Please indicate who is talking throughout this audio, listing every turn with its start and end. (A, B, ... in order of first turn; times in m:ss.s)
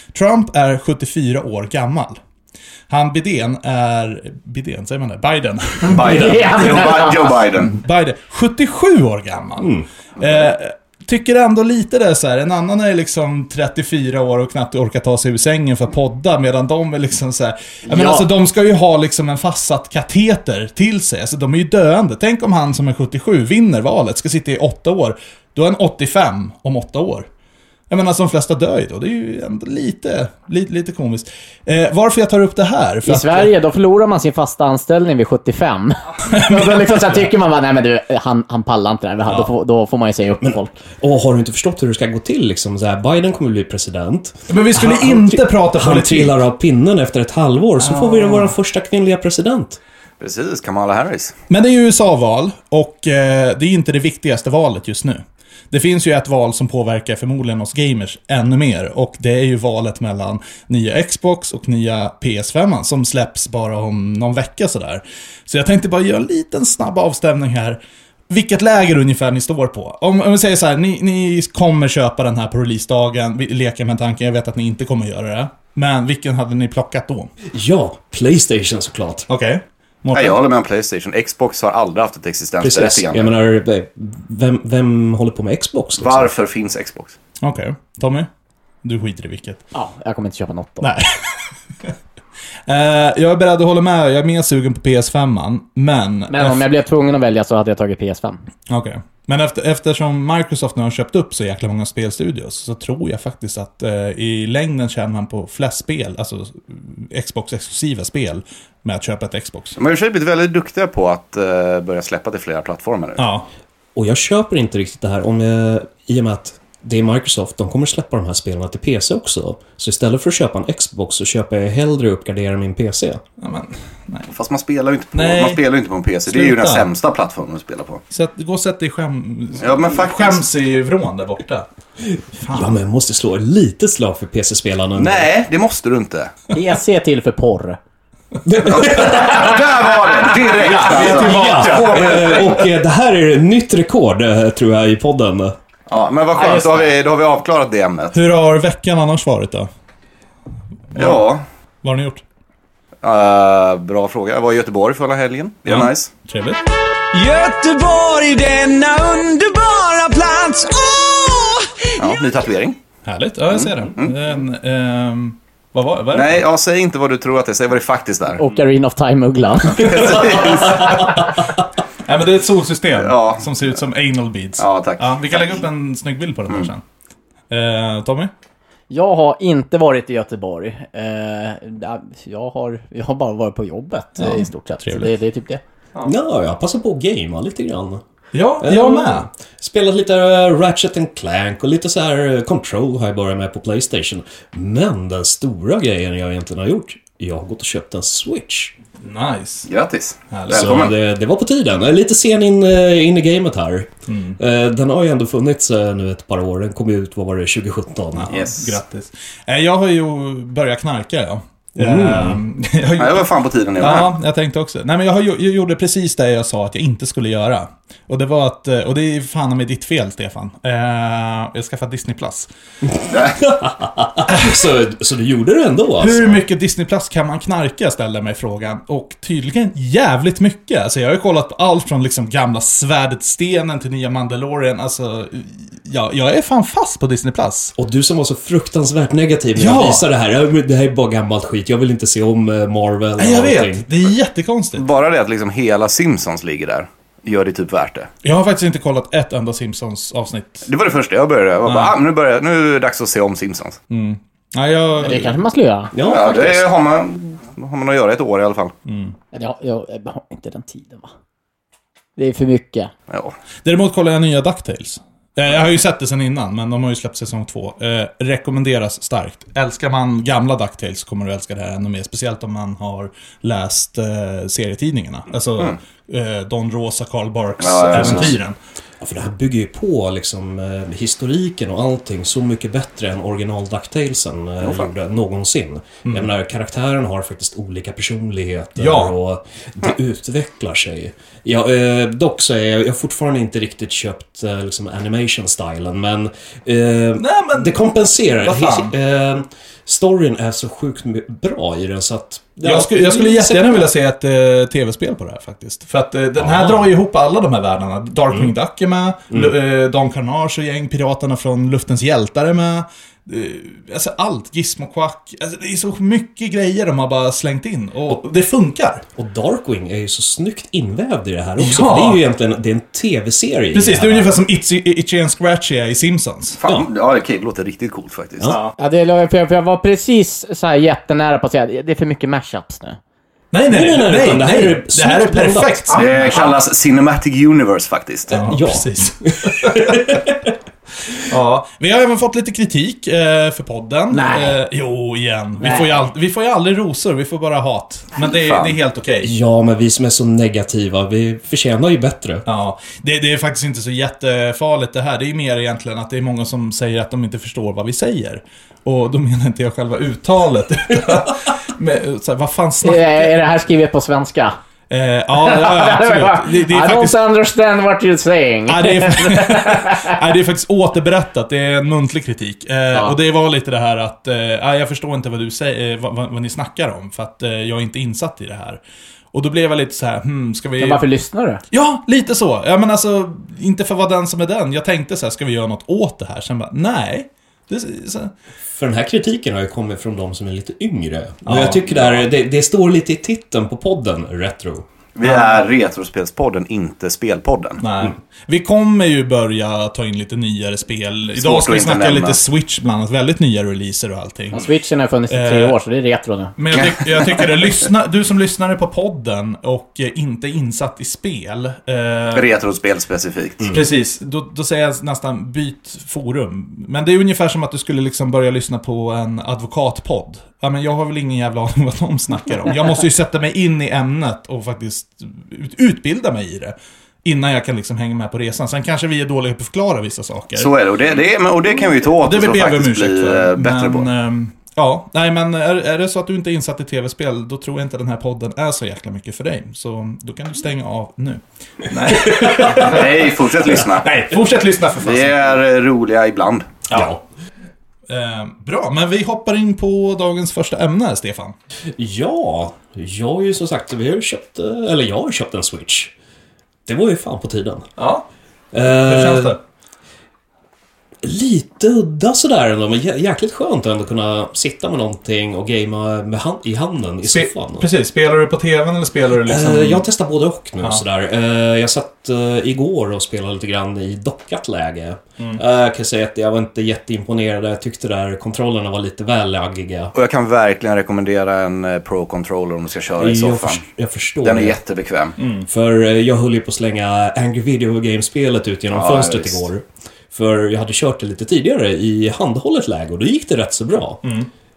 0:00.1-0:02.2 A
0:02.9-0:27.3 A
0:05.9-0:07.8 B
0:06.0-0:06.3 C
0:06.1-0:07.1 D
0:09.6-0:09.9 C
0:17.9-0:18.3 D
0:27.9-0:33.5 A
0:33.1-0:40.7 D
0:36.3-0:37.3 A
0:39.3-0:39.5 A
0:40.4-0:49.8 C
0:44.5-0:46.4 A
0:47.8-0:48.6 A
0:50.2-0:51.4 B
0:51.5-1:07.8 A
1:08.3-1:17.3 A
1:17.5-1:19.3 C
1:19.3-1:20.4 A
1:20.1-1:23.3 B
1:22.6-1:26.3 C
1:26.0-1:27.2 B
1:27.4-1:28.3 A
1:28.8-1:29.6 A
1:29.7-1:30.9 D
1:30.8-1:31.9 A
1:32.7-1:36.6 A
1:36.3-1:38.4 D
1:38.7-1:49.8 A
1:49.8-1:53.2 B
1:53.2-1:53.5 A
1:54.0-2:03.2 C
2:03.4-2:04.3 A
2:04.3-2:08.0 B
2:05.1-2:05.6 A
2:06.3-2:06.9 A
2:08.1-2:11.7 A
2:09.6-2:10.4 B
2:12.4-2:12.8 A
2:12.5-2:15.3 C
2:15.0-2:16.3 B
2:16.5-2:17.8 D
2:18.4-2:19.5 C
2:18.6-2:22.4 B
2:20.4-2:22.6 A
2:20.8-2:25.6 C
2:25.9-2:28.2 B
2:26.4-2:26.9 D
2:28.1-2:29.7 A
2:30.9-2:31.3 A
2:31.0-2:31.4 B
2:31.8-2:32.2 A
2:33.0-2:36.1 B
2:35.7-2:36.6 A
2:37.1-2:42.1 E
2:42.0-2:42.8 B
2:43.0-2:46.4 A
2:43.5-2:44.1 B
2:46.1-2:48.4 B
2:48.4-2:50.3 D
2:49.7-2:51.2 B
2:50.0-2:51.4 A
2:52.0-2:56.8 A
2:52.9-2:53.5 B
2:54.6-2:55.6 B
2:57.5-2:58.3 A
2:58.9-3:05.6 D
3:04.2-3:05.1 A
3:06.0-3:08.0 C
3:08.3-3:09.3 A
3:08.6-3:18.8 C
3:19.0-3:19.7 A
3:19.7-3:20.9 B
3:20.3-3:20.8 A
3:20.5-3:28.3 C
3:24.1-3:24.4 A
3:28.1-3:42.5 A
3:28.3-3:28.8 B
3:31.8-3:32.4 C
3:33.0-3:34.2 B
3:42.9-3:46.4 C
3:46.0-3:57.8 A
3:57.8-4:03.9 C
3:59.6-4:00.0 A
4:03.2-4:04.9 A
4:04.8-4:08.1 B
4:08.2-4:10.7 A
4:10.7-4:13.8 B
4:11.6-4:11.9 A
4:13.9-4:15.4 A
4:15.0-4:15.9 D
4:15.9-4:16.7 C
4:16.0-4:18.7 B
4:18.9-4:19.2 A
4:19.3-4:21.1 D
4:22.2-4:22.9 D
4:23.1-4:23.4 B
4:23.6-4:38.6 A
4:37.6-4:38.4 B
4:37.9-4:38.3 C
4:39.0-5:03.9 C
4:44.6-4:44.9 B
4:48.8-4:49.2 A
4:57.2-4:58.9 A
5:02.6-5:19.0 A
5:06.4-5:06.9 C
5:19.2-5:24.4 C
5:21.6-5:22.2 A
5:23.7-5:26.6 A
5:26.6-5:28.6 B
5:28.5-5:28.8 A
5:28.8-5:33.0 D
5:33.5-5:36.6 A
5:33.7-5:35.9 C
5:35.9-5:38.6 B
5:38.3-5:40.3 A
5:38.3-5:40.4 C
5:41.1-5:49.3 A
5:44.1-5:44.6 D
5:48.3-5:48.7 B
5:49.2-5:52.4 C
5:52.5-6:03.4 A
6:02.8-6:04.6 D
6:04.9-6:07.2 A
6:05.4-6:10.1 D
6:08.7-6:18.8 A
6:19.3-6:21.0 A
6:20.8-6:21.6 D
6:21.7-6:28.3 A
6:28.7-6:34.9 C
6:31.4-6:32.3 A
6:35.2-6:37.8 B
6:35.2-6:35.6 A
6:37.8-6:44.7 A
6:41.4-6:42.4 B
6:44.5-6:46.6 D
6:45.3-6:45.7 A
6:46.6-6:52.5 A
6:52.3-6:53.7 B
6:53.7-7:10.7 A
7:10.6-7:14.1 B
7:12.2-7:25.4 A
7:22.2-7:22.6 C
7:22.5-7:24.2 B
7:25.0-7:26.7 B
7:26.9-7:27.2 A
7:26.9-7:27.2 C
7:28.1-7:31.6 A
7:31.9-7:36.1 C
7:36.9-7:37.9 C
7:38.0-7:38.2 A
7:38.7-7:39.6 C
7:38.9-7:39.6 A
7:41.2-7:47.9 C
7:47.3-7:50.1 A
7:49.4-8:00.1 C
8:00.2-8:03.8 B
8:03.2-8:04.8 C
8:04.4-8:05.4 B
8:05.4-8:05.7 A
8:05.7-8:14.3 C
8:08.9-8:09.6 B
8:14.2-8:14.5 A